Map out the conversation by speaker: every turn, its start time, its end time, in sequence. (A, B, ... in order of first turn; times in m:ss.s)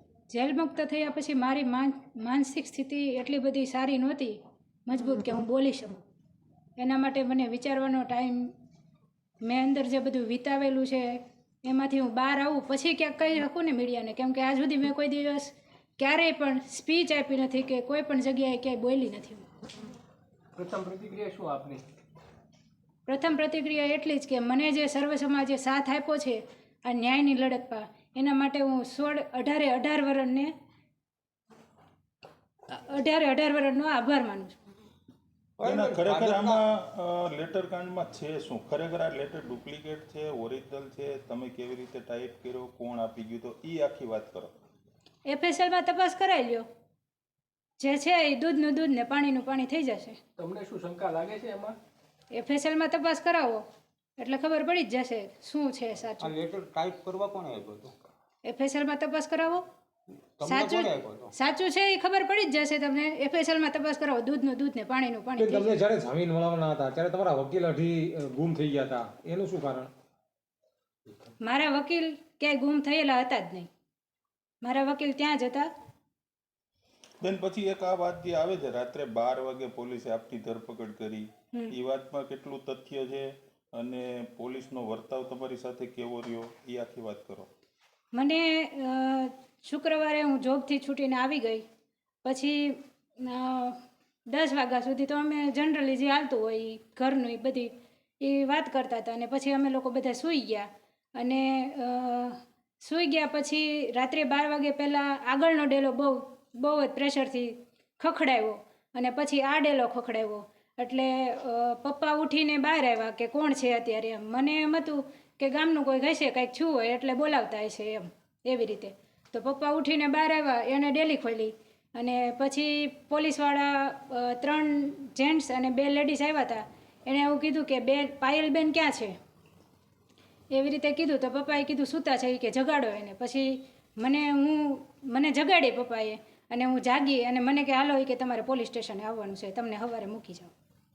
0:00.3-0:05.9 A
0:06.8-0:08.5 A
0:09.4-0:19.5 A
0:20.6-0:21.8 B
0:23.1-0:30.5 A
0:32.7-0:34.6 A
0:35.6-0:36.6 C
0:35.6-0:44.5 D
0:45.3-0:46.7 A
0:47.8-0:50.2 A
0:50.4-0:51.8 B
0:52.3-0:53.6 A
0:54.2-0:56.4 A
0:56.2-0:57.9 C
0:58.4-0:59.6 A
1:00.4-1:01.3 C
1:00.4-1:05.8 A
1:05.4-1:09.9 E
1:11.4-1:13.7 A
1:14.6-1:15.7 A
1:17.2-1:27.5 D
1:28.1-1:31.6 A
1:32.2-1:33.8 A
1:34.3-2:09.2 A
2:10.5-2:20.5 A